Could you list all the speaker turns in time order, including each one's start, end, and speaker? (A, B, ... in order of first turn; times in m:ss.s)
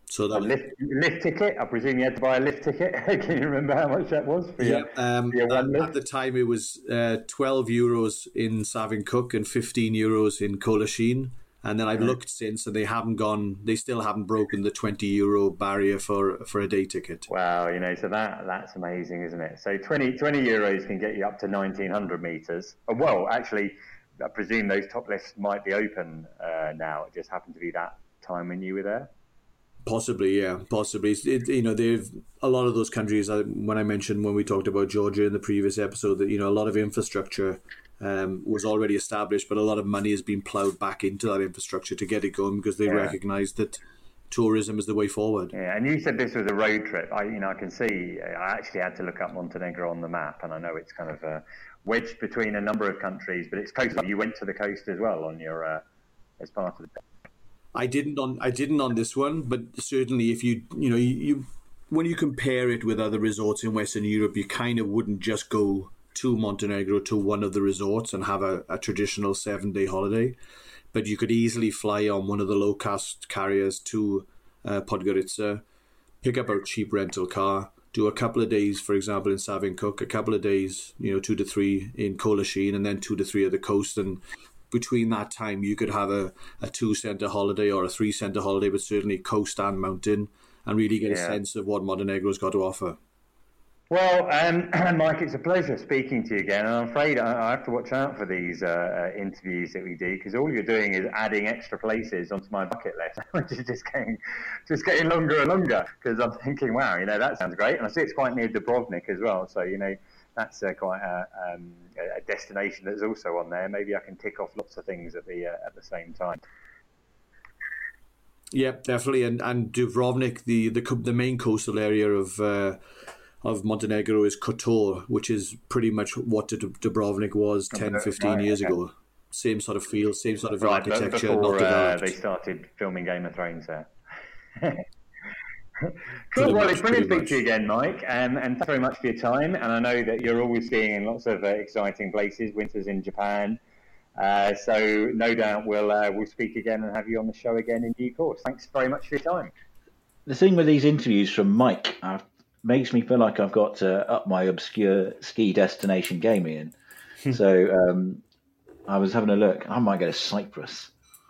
0:00.1-0:00.6 A
0:00.3-0:05.9 B
0:04.6-0:17.2 A
0:17.3-0:29.1 B
0:29.8-0:45.5 A
0:42.9-0:43.2 B
0:45.5-0:55.8 B
0:56.4-0:57.0 B
0:57.7-1:10.4 A
1:10.9-1:15.6 A
1:16.2-1:24.2 A
1:24.7-1:33.0 A
1:31.1-1:31.4 B
1:33.9-1:56.4 B
1:58.5-2:02.8 A
2:03.4-2:12.1 A
2:07.7-2:08.8 B
2:10.6-2:13.9 B
2:14.6-2:14.8 B
2:15.8-2:23.6 B
2:16.4-2:17.4 A
2:24.2-2:29.5 B
2:30.2-2:36.7 C
2:37.3-2:38.2 C
2:38.9-2:40.9 C